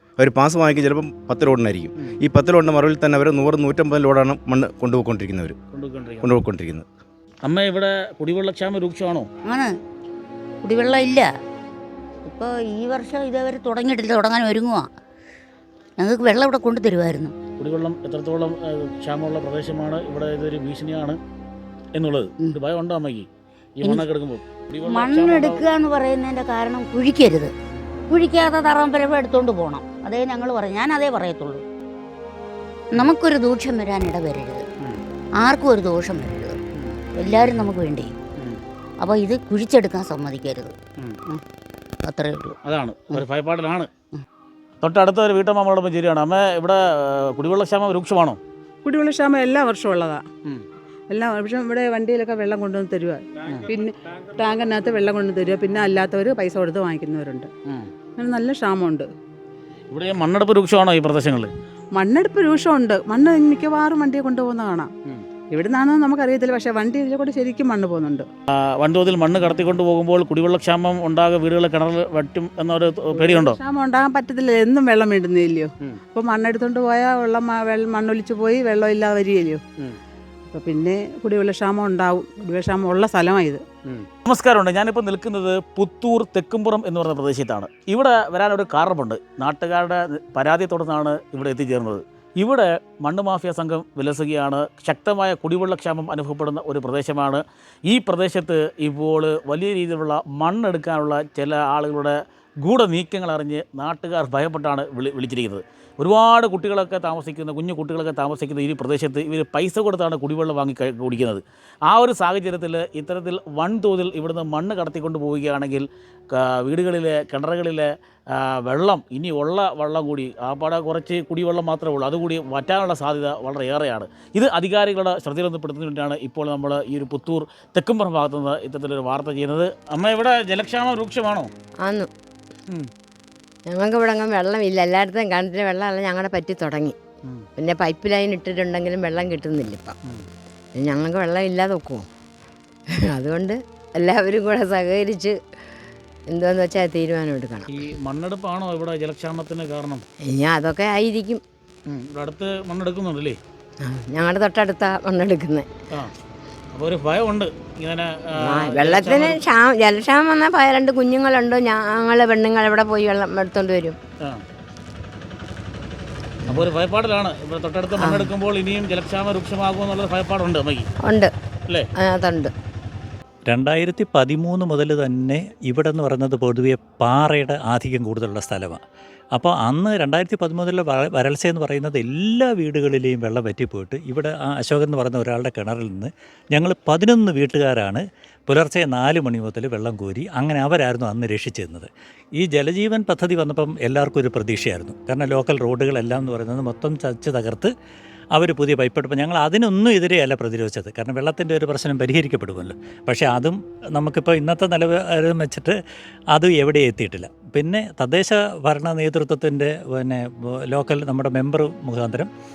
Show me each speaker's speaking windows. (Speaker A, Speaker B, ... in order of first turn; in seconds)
Speaker A: 0.2-5.6, 6.2-6.8
Speaker B: 5.7-6.3, 7.4-9.3, 17.6-21.2, 21.9-23.3, 23.8-25.6, 42.6-43.9, 44.8-48.4, 59.9-61.5, 68.6-73.6, 83.9-117.9, 118.4-131.5, 147.7-150.0, 151.9-153.4, 156.7-159.4, 166.5-170.9
Speaker C: 9.4-9.7, 10.6-11.3, 12.2-14.9, 16.0-17.3, 24.8-27.5, 28.1-31.6, 32.9-34.6, 35.4-36.6, 37.1-38.1, 39.0-40.7, 42.0-42.5
Speaker D: 48.8-50.2, 51.1-57.5, 58.2-59.1, 62.0-64.9, 65.5-68.3, 73.1-79.6, 80.5-83.6
Speaker E: 131.8-132.1, 133.7-137.0, 137.6-139.9, 140.8-142.1, 143.1-145.3, 146.3-147.7, 150.2-151.4, 153.8-155.7, 158.4-164.0, 168.0-168.3, 171.0-171.3, 172.0-172.5
Speaker F: 173.5-178.8, 179.3-197.7, 198.3-205.8, 206.3-212.3